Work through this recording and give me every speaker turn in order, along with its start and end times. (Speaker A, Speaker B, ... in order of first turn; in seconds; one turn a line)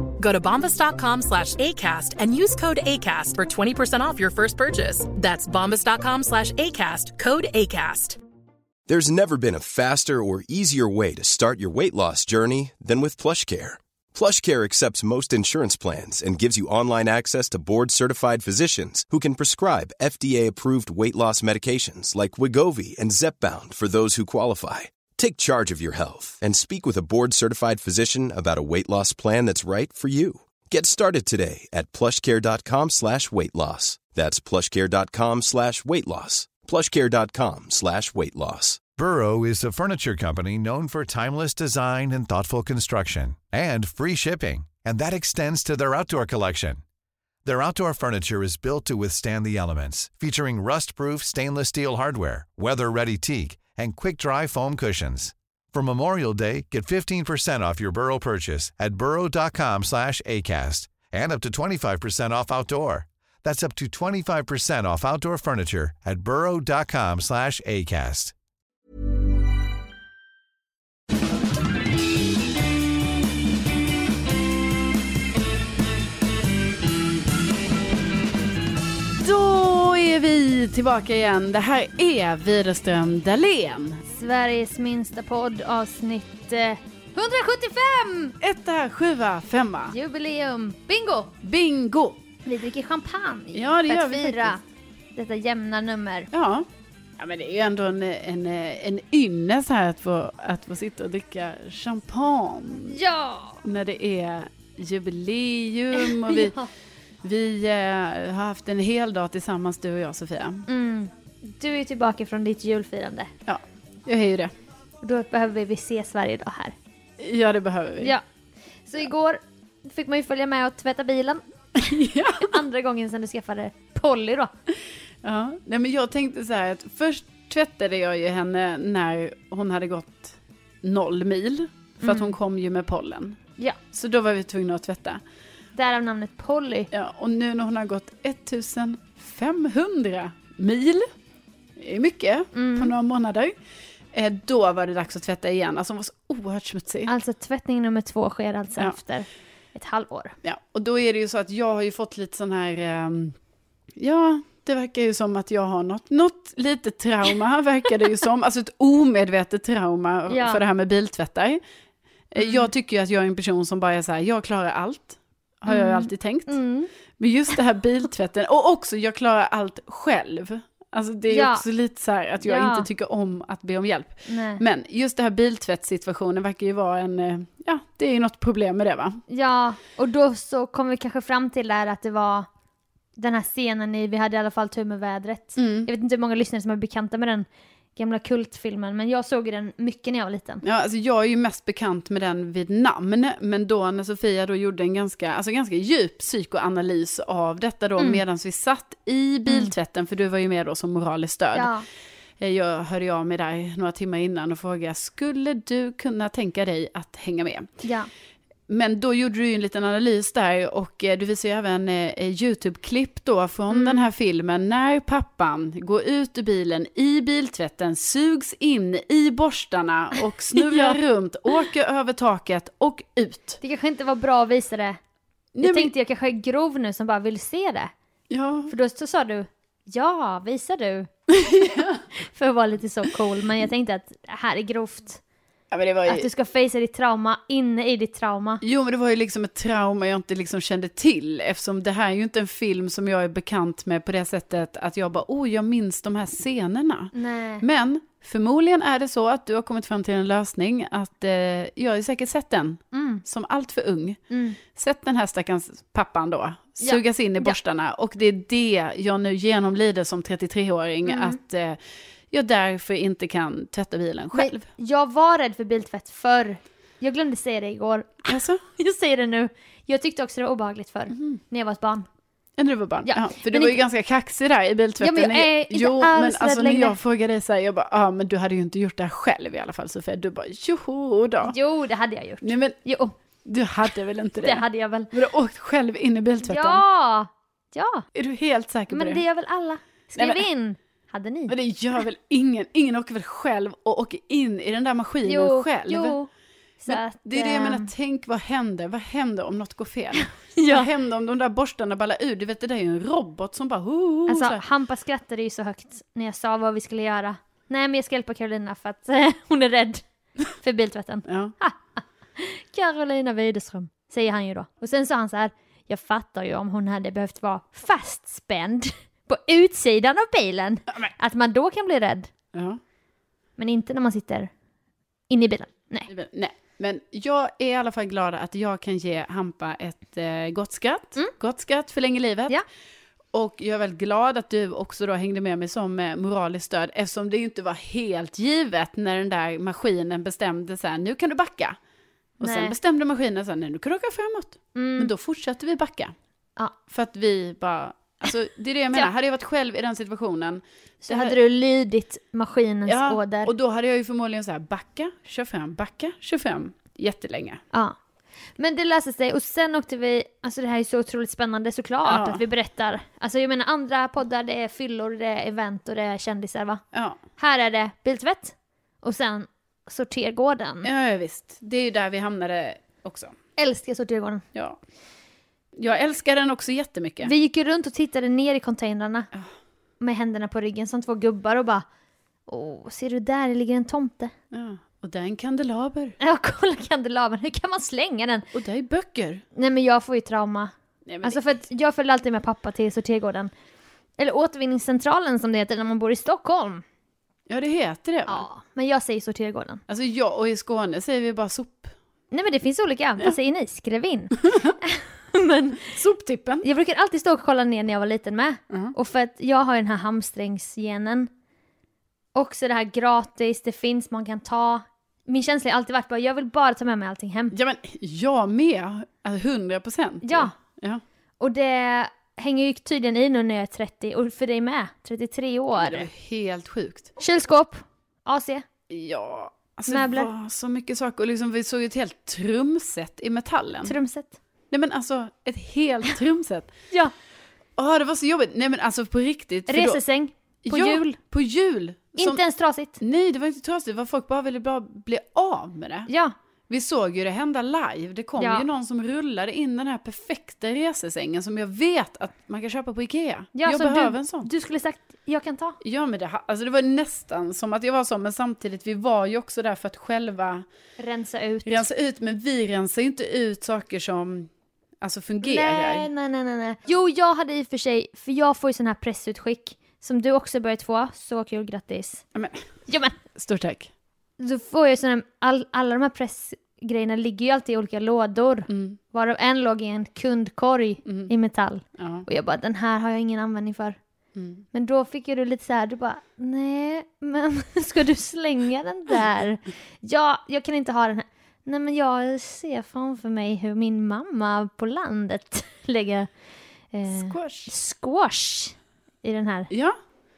Speaker A: 0.2-8.2
Speaker B: 8.9-38.8
Speaker C: 39.0-46.8
Speaker C: 47.4-68.3
Speaker D: 79.2-84.0
Speaker E: 84.1-88.3
Speaker D: 88.4-90.0
Speaker E: 89.9-91.3
Speaker D: 91.4-92.2
Speaker E: 92.5-94.6
Speaker D: 93.5-94.6
Speaker E: 95.2-96.3
Speaker D: 96.3-96.7
Speaker D: 97.2-103.0
Speaker E: 102.9-103.6
Speaker D: 103.7-106.5
Speaker E: 106.0-106.7
Speaker D: 107.2-110.7
Speaker E: 110.7-113.3
Speaker D: 113.5-114.5
Speaker E: 115.0-116.8
Speaker D: 117.2-118.2
Speaker E: 118.9-121.4
Speaker D: 121.8-122.6
Speaker E: 122.4-124.5
Speaker D: 125.2-133.4
Speaker E: 132.0-132.3
Speaker D: 133.9-135.2
Speaker E: 135.8-136.9
Speaker D: 136.9-141.1
Speaker D: 141.8-143.6
Speaker E: 142.5-142.9
Speaker D: 144.1-147.1
Speaker E: 147.1-150.3
Speaker D: 150.4-153.4
Speaker D: 154.0-161.6
Speaker E: 160.3-160.6
Speaker D: 162.3-166.6
Speaker E: 162.4-162.7
Speaker E: 165.7-166.9
Speaker D: 167.1-179.2
Speaker E: 171.3-171.6
Speaker E: 172.4-172.9
Speaker E: 174.3-174.6
Speaker E: 179.3-182.5
Speaker E: 183.2-190.6
Speaker D: 185.6-185.9
Speaker D: 190.6-201.7
Speaker E: 199.5-199.7
Speaker E: 201.5-201.9
Speaker D: 202.4-207.7
Speaker E: 207.8-208.1
Speaker D: 208.7-223.6
Speaker E: 213.7-214.1
Speaker E: 220.6-221.0
Speaker E: 223.6-225.0
Speaker D: 225.6-225.9
Speaker E: 225.6-227.9
Speaker D: 228.3-228.7
Speaker E: 228.7-231.1
Speaker D: 231.3-232.1
Speaker E: 232.2-235.2
Speaker D: 235.7-236.3
Speaker E: 236.1-238.6
Speaker D: 238.6-254.2
Speaker E: 247.1-247.7
Speaker E: 252.9-253.2
Speaker E: 254.3-254.6
Speaker D: 254.7-261.8
Speaker E: 256.8-257.6
Speaker E: 261.1-261.4
Speaker D: 262.3-264.7
Speaker E: 264.3-272.1
Speaker D: 268.3-268.6
Speaker D: 271.1-271.4
Speaker D: 272.6-281.5
Speaker E: 273.1-273.8
Speaker E: 275.0-277.0
Speaker E: 281.4-283.1
Speaker D: 282.4-282.8
Speaker D: 283.4-286.8
Speaker E: 284.4-285.1
Speaker E: 286.4-288.1
Speaker D: 288.1-289.2
Speaker E: 288.9-291.5
Speaker D: 290.2-290.4
Speaker D: 291.5-296.2
Speaker E: 295.2-296.3
Speaker E: 296.8-297.9
Speaker D: 296.9-304.6
Speaker E: 300.2-300.9
Speaker E: 304.3-310.0
Speaker E: 310.6-322.3
Speaker D: 311.3-311.6
Speaker D: 322.5-322.8
Speaker E: 323.6-324.5
Speaker E: 325.3-326.1
Speaker D: 326.1-332.6
Speaker D: 333.3-341.8
Speaker E: 342.4-342.8
Speaker D: 342.4-346.1
Speaker E: 344.8-345.1
Speaker D: 346.9-351.4
Speaker E: 351.0-353.5
Speaker D: 352.9-357.6
Speaker E: 358.6-366.8
Speaker D: 362.1-362.4
Speaker D: 366.9-367.2
Speaker E: 367.4-370.9
Speaker D: 370.8-373.4
Speaker E: 373.6-374.4
Speaker D: 375.8-377.3
Speaker E: 377.2-379.3
Speaker E: 380.0-381.9
Speaker E: 382.5-384.3
Speaker D: 384.5-386.2
Speaker E: 386.2-388.5
Speaker D: 388.5-389.4
Speaker E: 389.6-390.7
Speaker D: 391.1-391.4
Speaker E: 391.2-393.5
Speaker E: 394.2-396.8
Speaker D: 397.5-398.4
Speaker E: 398.3-399.8
Speaker D: 399.9-401.9
Speaker E: 402.3-405.9
Speaker D: 405.9-406.6
Speaker E: 406.6-411.3
Speaker E: 412.4-417.6
Speaker D: 417.5-421.0
Speaker E: 420.2-420.5
Speaker E: 421.4-426.1
Speaker D: 425.8-427.1
Speaker E: 427.2-428.6
Speaker D: 428.9-433.9
Speaker E: 429.9-430.3
Speaker E: 433.9-434.4
Speaker D: 434.7-436.7
Speaker D: 437.8-440.0
Speaker E: 439.7-441.2
Speaker D: 440.6-442.4
Speaker E: 442.2-443.0
Speaker D: 443.0-446.1
Speaker E: 446.1-446.4
Speaker D: 446.7-454.5
Speaker E: 448.4-448.7
Speaker E: 453.5-455.8
Speaker D: 455.8-460.7
Speaker E: 461.0-461.8
Speaker D: 461.7-464.5
Speaker D: 465.0-466.1
Speaker E: 465.4-472.2
Speaker D: 472.4-472.7
Speaker E: 472.9-473.2
Speaker D: 473.4-473.9
Speaker E: 474.4-484.0
Speaker D: 478.7-479.0
Speaker D: 481.1-481.3
Speaker D: 482.0-482.3
Speaker D: 484.4-484.7
Speaker E: 484.7-496.3
Speaker E: 496.9-499.7
Speaker D: 497.1-497.7
Speaker D: 499.7-500.0